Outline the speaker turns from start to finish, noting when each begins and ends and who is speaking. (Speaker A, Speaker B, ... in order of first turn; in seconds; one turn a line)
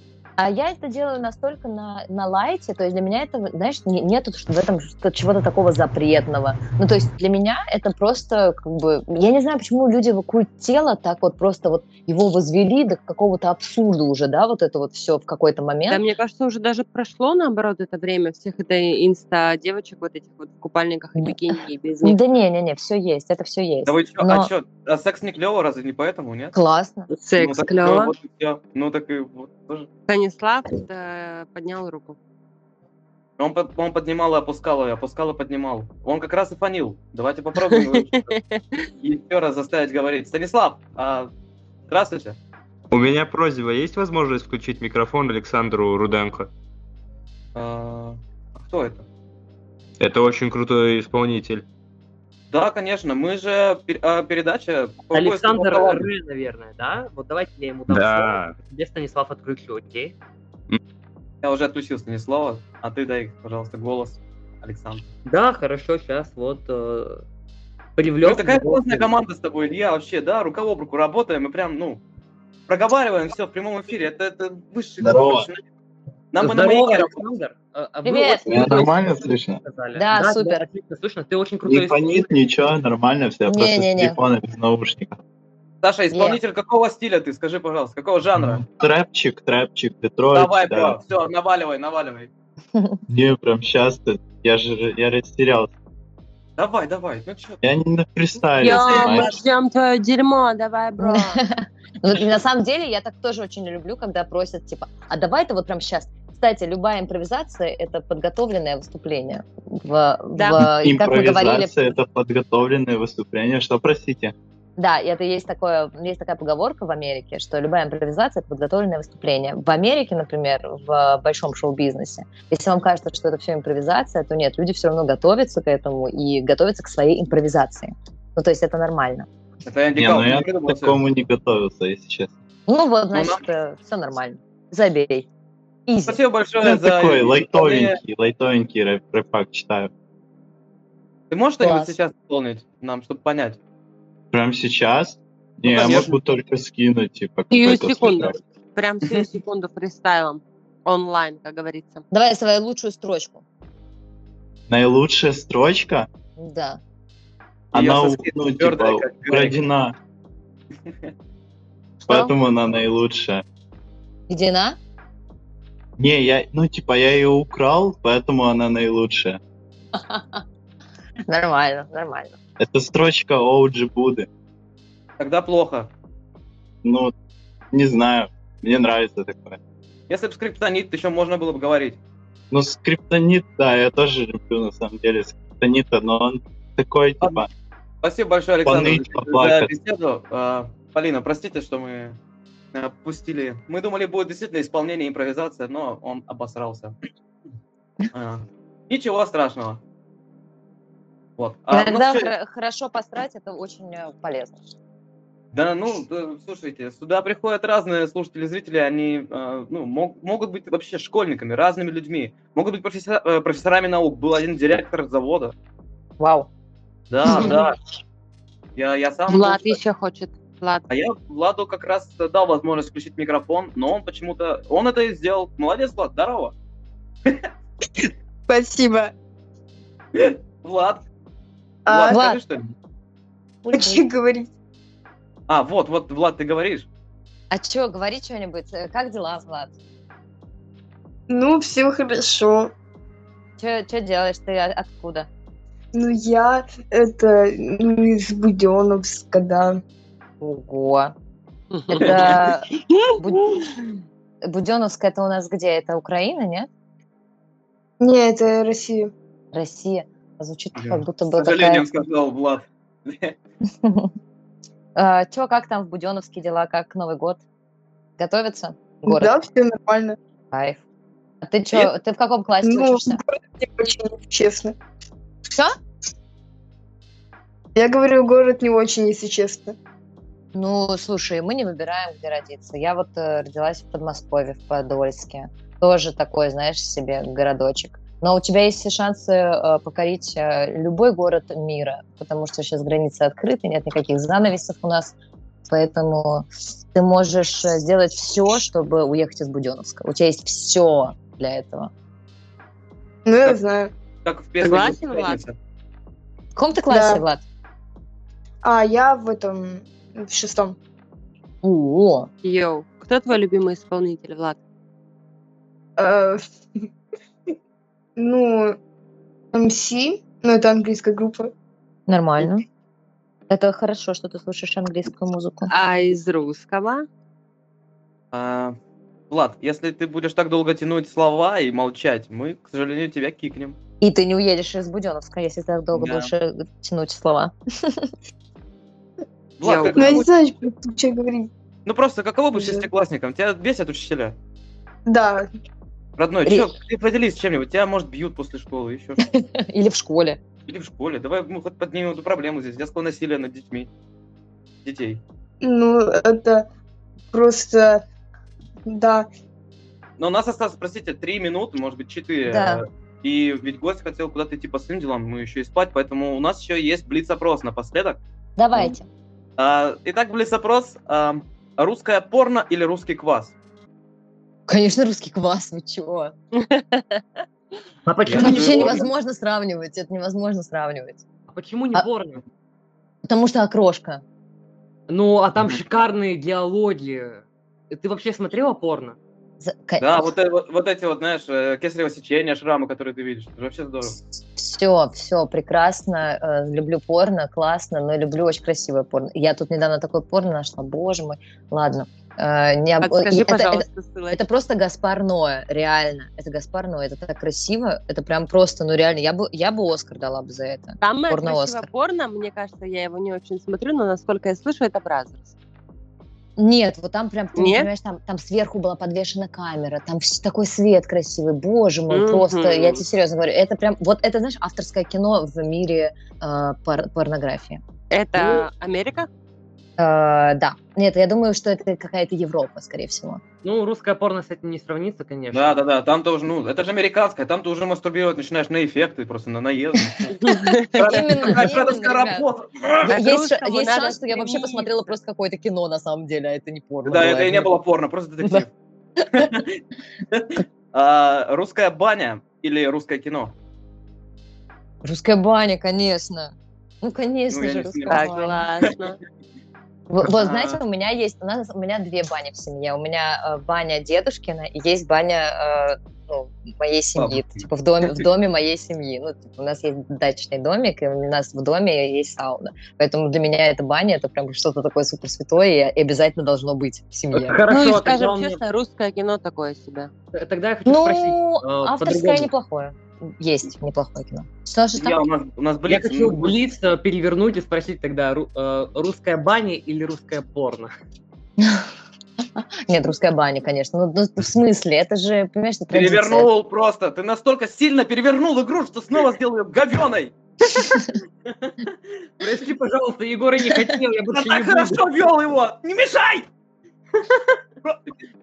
Speaker A: 0.4-16.0
Speaker B: 15.9-22.2
Speaker A: 22.0-24.5
Speaker C: 23.9-26.5
Speaker A: 26.5-27.1
Speaker B: 27.1-28.1
Speaker C: 27.4-29.9
Speaker B: 30.1-32.2
Speaker C: 33.4-38.4
Speaker B: 37.7-38.9
Speaker C: 39.0-41.3
Speaker C: 41.9-42.4
Speaker D: 42.9-46.5
Speaker C: 47.5-49.0
Speaker D: 50.0-51.6
Speaker C: 52.5-56.1
Speaker E: 55.1-60.1
Speaker D: 57.9-58.5
Speaker C: 61.4-65.1
Speaker E: 65.3-67.2
Speaker E: 68.0-69.1
Speaker C: 68.2-72.0
Speaker C: 72.7-75.6
Speaker F: 75.0-75.5
Speaker C: 76.3-77.2
Speaker E: 76.4-82.3
Speaker A: 78.0-78.9
Speaker F: 78.5-79.6
Speaker A: 79.9-80.7
Speaker F: 81.6-85.2
Speaker A: 83.5-84.2
Speaker C: 85.8-88.6
Speaker A: 86.1-86.4
Speaker F: 88.4-91.0
Speaker C: 90.3-92.3
Speaker F: 93.1-95.7
Speaker C: 96.6-97.6
Speaker F: 97.6-99.4
Speaker B: 98.6-101.4
Speaker C: 98.6-99.3
Speaker A: 101.0-111.7
Speaker B: 110.3-110.6
Speaker F: 110.6-114.3
Speaker A: 114.8-129.3
Speaker C: 129.6-131.0
Speaker F: 129.9-132.3
Speaker A: 132.7-135.3
Speaker C: 133.1-133.4
Speaker A: 135.9-136.2
Speaker C: 136.1-138.0
Speaker F: 136.6-139.9
Speaker C: 141.3-143.6
Speaker A: 141.6-141.9
Speaker F: 144.3-148.4
Speaker A: 145.7-146.1
Speaker C: 145.8-146.1
Speaker B: 147.5-152.0
Speaker A: 152.1-153.4
Speaker F: 154.7-156.1
Speaker A: 156.4-156.8
Speaker F: 157.7-159.9
Speaker C: 157.7-159.6
Speaker F: 162.1-163.4
Speaker A: 164.3-164.8
Speaker F: 166.0-169.4
Speaker A: 169.9-170.4
Speaker A: 171.3-172.3
Speaker F: 172.6-174.3
Speaker C: 175.2-175.9
Speaker F: 176.8-177.1
Speaker F: 177.7-179.6
Speaker C: 180.1-182.0
Speaker F: 182.5-187.5
Speaker C: 188.0-192.2
Speaker F: 188.6-189.7
Speaker C: 192.7-196.9
Speaker C: 198.1-199.8
Speaker C: 201.4-202.3
Speaker A: 201.7-204.6
Speaker C: 205.5-215.5
Speaker A: 216.2-216.5
Speaker C: 217.1-217.8
Speaker A: 217.3-217.6
Speaker C: 218.8-219.8
Speaker B: 219.3-220.8
Speaker C: 220.9-226.5
Speaker G: 228.5-229.1
Speaker C: 230.1-231.0
Speaker G: 231.8-232.3
Speaker C: 231.9-232.7
Speaker A: 232.1-232.4
Speaker A: 233.7-234.0
Speaker G: 233.7-234.5
Speaker C: 235.5-236.9
Speaker A: 237.5-239.7
Speaker G: 241.3-242.7
Speaker A: 243.6-245.3
Speaker G: 245.9-249.8
Speaker A: 250.4-251.1
Speaker E: 251.7-252.4
Speaker A: 251.9-252.7
Speaker A: 254.4-256.7
Speaker G: 258.0-259.1
Speaker A: 259.5-261.8
Speaker C: 260.8-263.4
Speaker A: 263.7-264.1
Speaker A: 264.9-267.4
Speaker A: 268.2-269.3
Speaker G: 269.0-270.2
Speaker A: 270.5-270.8
Speaker A: 271.4-273.2
Speaker G: 272.6-274.8
Speaker G: 277.7-279.7
Speaker A: 280.5-295.1
Speaker A: 295.7-301.9
Speaker G: 303.2-303.9
Speaker C: 304.2-305.6
Speaker B: 304.6-305.4
Speaker A: 306.5-307.4
Speaker G: 306.9-307.2
Speaker G: 308.6-310.8
Speaker A: 311.6-312.3
Speaker B: 312.4-314.6
Speaker G: 316.0-316.9
Speaker G: 318.2-318.8
Speaker G: 319.5-321.5
Speaker A: 322.1-322.6
Speaker A: 323.5-325.7
Speaker B: 325.7-327.1
Speaker C: 328.3-328.8
Speaker C: 329.3-333.8
Speaker A: 334.0-338.1
Speaker C: 335.9-336.3
Speaker C: 339.6-340.3
Speaker B: 339.6-340.1
Speaker G: 339.9-341.5
Speaker C: 341.9-344.4
Speaker G: 345.1-345.5
Speaker C: 346.2-349.3
Speaker A: 349.2-350.4
Speaker C: 350.7-353.9
Speaker C: 354.8-355.2
Speaker G: 355.6-356.6
Speaker G: 357.3-358.0
Speaker G: 358.9-359.3
Speaker C: 360.2-368.2
Speaker A: 362.5-362.8
Speaker A: 368.6-369.1
Speaker C: 369.6-373.5
Speaker A: 374.7-376.3
Speaker B: 376.6-377.2
Speaker E: 378.1-378.9
Speaker C: 378.2-379.0
Speaker A: 378.3-381.2
Speaker E: 381.5-382.4
Speaker A: 383.2-384.2
Speaker E: 385.1-389.2
Speaker A: 389.6-390.3
Speaker C: 390.0-394.2
Speaker A: 394.6-411.9
Speaker B: 403.0-404.4
Speaker B: 411.0-415.5
Speaker A: 416.6-427.8
Speaker B: 417.5-417.9
Speaker B: 422.1-423.0
Speaker B: 428.1-429.3
Speaker A: 430.0-433.4
Speaker E: 433.6-435.8
Speaker C: 435.5-443.1
Speaker B: 440.4-440.9
Speaker A: 441.1-442.4
Speaker B: 443.1-444.9
Speaker A: 443.1-447.7
Speaker C: 447.0-448.7
Speaker A: 449.2-449.5
Speaker C: 449.3-449.8
Speaker C: 450.3-453.5
Speaker A: 455.0-458.6
Speaker C: 457.5-458.5
Speaker B: 458.1-459.2
Speaker A: 460.1-477.6
Speaker C: 460.2-460.8
Speaker C: 467.2-467.6
Speaker E: 477.3-478.6
Speaker B: 477.7-480.1
Speaker E: 480.3-482.5
Speaker A: 480.9-485.2
Speaker C: 484.9-486.6
Speaker E: 485.9-490.9
Speaker A: 491.6-491.9
Speaker A: 492.6-496.5
Speaker C: 495.9-501.0
Speaker E: 502.4-505.0
Speaker A: 503.7-504.0
Speaker C: 504.3-506.5
Speaker C: 507.8-508.1